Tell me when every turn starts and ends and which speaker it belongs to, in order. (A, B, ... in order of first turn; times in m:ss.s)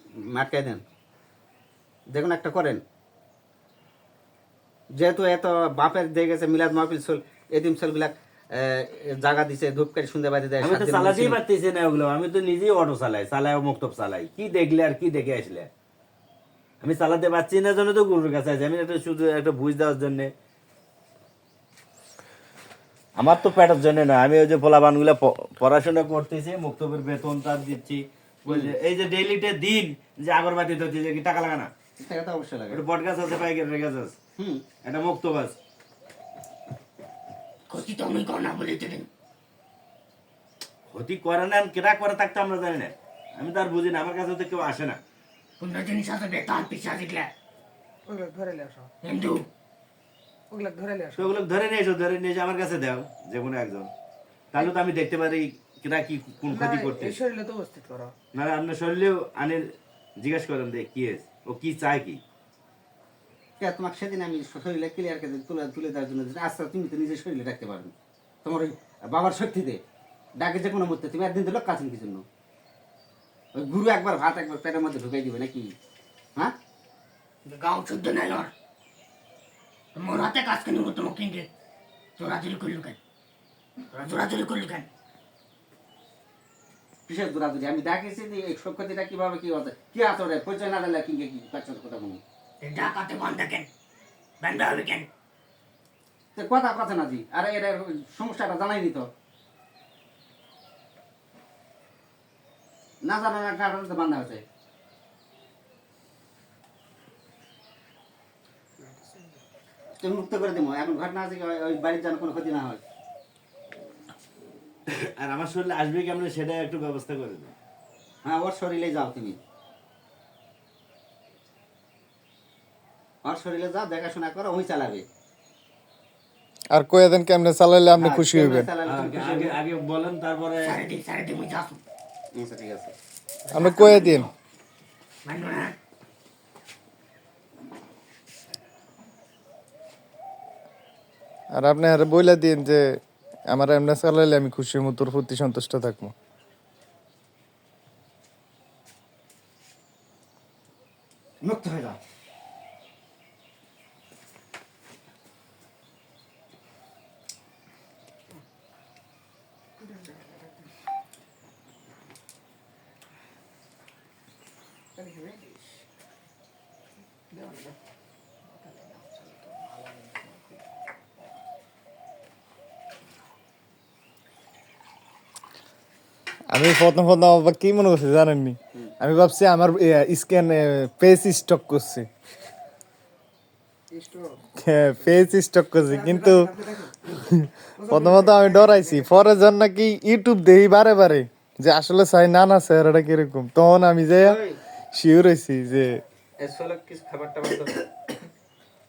0:00.3-0:00.8 A
0:02.1-0:02.8 A
0:05.0-0:11.4 A
0:10.6-0:15.7 B
0:16.8-0:20.3 B
0:23.2-0:31.7 B
0:28.5-0:28.7 A
0:32.0-0:32.8 A
0:32.7-0:34.1 B
0:34.4-0:34.7 A
0:34.8-0:35.5 B
0:37.7-0:39.1 C
0:40.9-0:45.0 B
0:45.6-0:47.3 C
0:48.1-0:48.6 D
0:49.0-0:49.5 C
0:50.5-0:51.1 D
0:51.1-0:53.9 B
0:54.5-0:57.2 B
0:57.2-0:58.1 D
0:58.3-1:02.2 B
1:03.6-1:07.9 A
1:08.4-1:09.8 A
1:10.4-1:12.2 A
1:13.5-1:15.7 A
1:17.4-1:18.5 C
1:19.9-1:21.5 C
1:22.2-1:23.0 C
1:23.9-1:24.9 C
1:27.1-1:32.2 A
1:32.6-1:33.7 C
1:34.4-1:35.1 C
1:36.4-1:39.1 A
1:43.0-1:44.4 A
1:50.0-1:52.8 A
1:54.9-1:57.5 B
1:58.2-1:59.4 A
2:03.2-2:05.0 A
2:06.7-2:08.7 E
2:08.0-2:09.6 A
2:08.8-2:10.8 B
2:10.6-2:11.8 C
2:12.3-2:12.9 A
2:13.5-2:14.3 C
2:13.5-2:14.3 E
2:15.2-2:15.7 C
2:21.6-2:23.0 E
2:23.5-2:26.1 E
2:31.4-2:32.0 A
2:56.5-3:02.1 E
3:04.6-3:06.5 E
3:06.3-3:06.8 A
3:07.0-3:14.4 E
3:14.2-3:14.6 A
3:14.9-3:16.0 E
3:16.4-3:17.8 A